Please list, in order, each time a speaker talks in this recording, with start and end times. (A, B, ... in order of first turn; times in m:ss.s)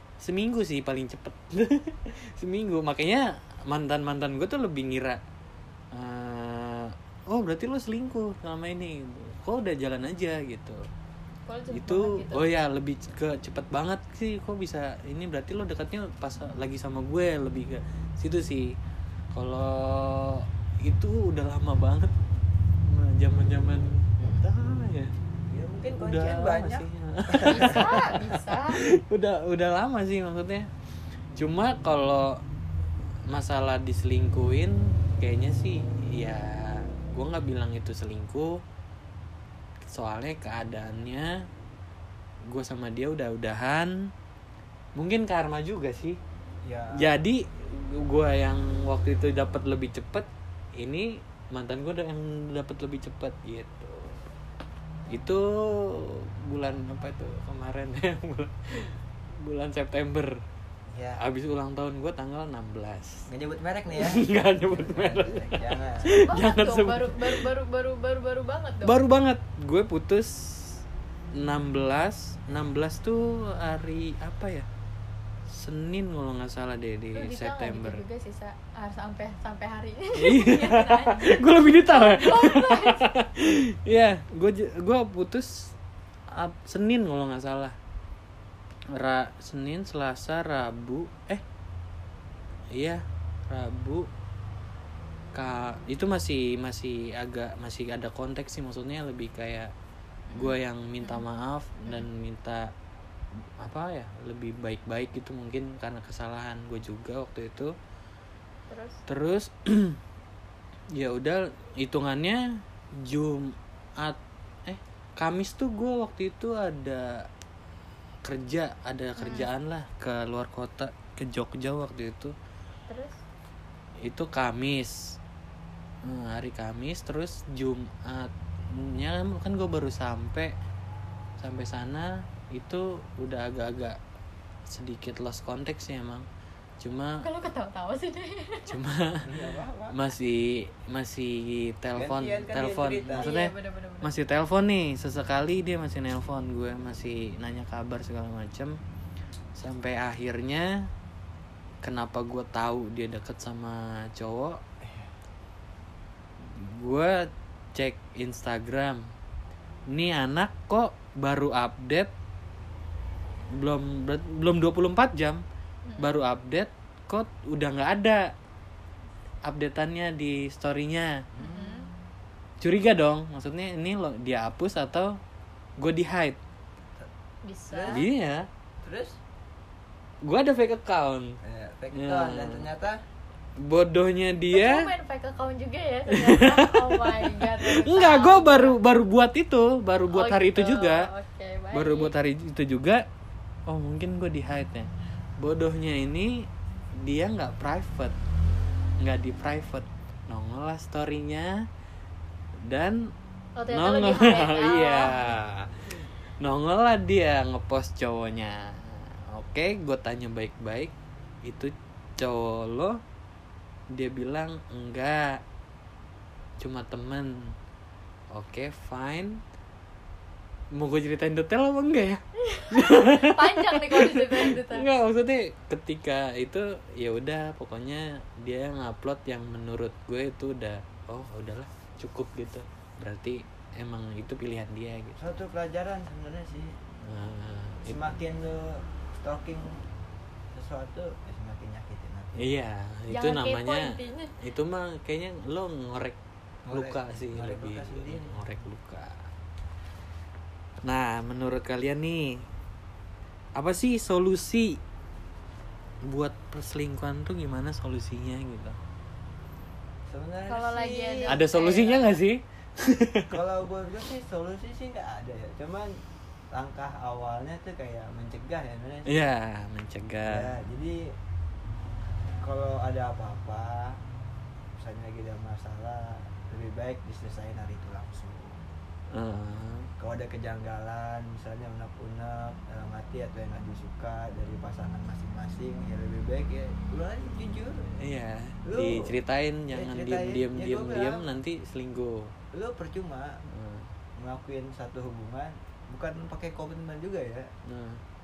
0:00.2-0:05.2 A
0:05.9-0:10.8 A
0:11.5-0:12.5 B
0:11.7-0:18.7 A
0:19.3-0:22.1 A
0:22.8-0:25.1 A
0:25.5-0:27.8 C
0:26.0-0:28.2 A
0:27.5-0:28.8 B
0:28.7-0:30.7 A
0:31.4-0:32.4 A
0:33.3-0:38.6 A
0:39.9-0:41.3 A
0:42.5-0:44.1 A
0:45.0-0:46.2 A
0:46.6-0:47.2 C
0:47.0-0:54.2 A
0:55.1-1:00.4 A
1:00.9-1:01.2 C
1:01.2-1:03.3 A
1:03.3-1:06.1 C
1:03.9-1:07.4 A
1:06.2-1:09.0 B
1:08.8-1:10.8 A
1:11.3-1:14.7 A
1:15.5-1:18.0 A
1:17.1-1:23.1 B
1:20.2-1:25.7 A
1:26.3-1:27.8 A
1:28.9-1:31.4 A
1:32.8-1:34.1 A
1:35.3-1:39.7 A
1:40.3-1:41.2 B
1:40.3-1:42.7 A
1:41.8-1:42.1 B
1:43.6-1:47.7 A
1:48.7-1:49.0 B
1:49.1-1:50.0 A
1:51.0-1:52.4 A
1:53.0-1:57.2 A
1:58.2-2:02.3 A
1:59.2-1:59.5 B
2:02.9-2:03.2 B
2:04.0-2:05.0 A
2:06.0-2:10.5 A
2:11.4-2:14.0 A
2:14.7-2:16.3 A
2:16.8-2:17.2 A
2:17.2-2:18.7 B
2:18.7-2:23.5 A
2:19.3-2:20.0 C
2:22.0-2:23.3 C
2:23.2-2:24.1 B
2:24.0-2:28.8 A
2:29.6-2:30.7 A
2:31.8-2:34.6 A
2:34.8-2:35.1 C
2:36.4-2:39.0 A
2:39.9-2:42.1 A
2:43.5-2:45.4 A
2:45.9-2:46.1 B
2:46.0-2:48.3 A
2:49.4-2:51.1 A
2:51.4-2:51.9 C
2:51.4-2:51.9 B
2:52.6-2:55.1 A
2:55.8-2:56.4 A
2:57.4-2:58.0 B
2:57.7-2:58.1 C
2:57.9-2:58.5 A
2:58.8-2:59.2 C
3:00.2-3:01.4 A
3:01.4-3:03.0 C
3:01.9-3:02.6 A
3:03.6-3:04.9 A
3:04.5-3:08.7 B
3:06.1-3:11.1 A
3:10.1-3:12.1 B
3:11.7-3:13.0 A
3:13.7-3:16.5 A
3:17.0-3:18.1 A
3:19.0-3:21.6 A
3:22.7-3:23.0 A
3:23.6-3:25.4 B
3:23.7-3:30.9 A
3:31.4-3:33.0 A
3:33.9-3:35.4 A
3:36.6-3:37.5 A
3:38.3-3:39.4 A
3:40.7-3:55.2 A
3:42.4-3:44.9 B
3:55.2-3:56.8 C
3:57.0-3:58.1 A
3:57.9-3:59.8 C
4:00.5-4:02.4 C
4:02.4-4:06.2 A
4:03.1-4:04.3 B
4:06.7-4:08.5 C
4:06.7-4:09.3 A
4:10.8-4:12.4 A
4:13.6-4:14.8 A
4:16.0-4:18.8 A
4:20.1-4:21.4 C
4:20.5-4:22.2 B
4:21.3-4:23.4 A
4:23.3-4:25.9 C
4:26.5-4:29.1 C
4:29.1-4:30.5 A
4:30.3-4:31.0 C
4:32.4-4:34.0 C
4:34.8-4:38.6 C
4:39.1-4:39.9 A
4:40.0-4:47.8 C
4:48.0-4:52.3 A
4:48.7-4:49.1 C
4:49.7-4:51.2 C
4:52.5-4:53.4 C
4:53.5-4:53.9 A
4:54.2-4:57.5 C
4:57.7-4:58.0 A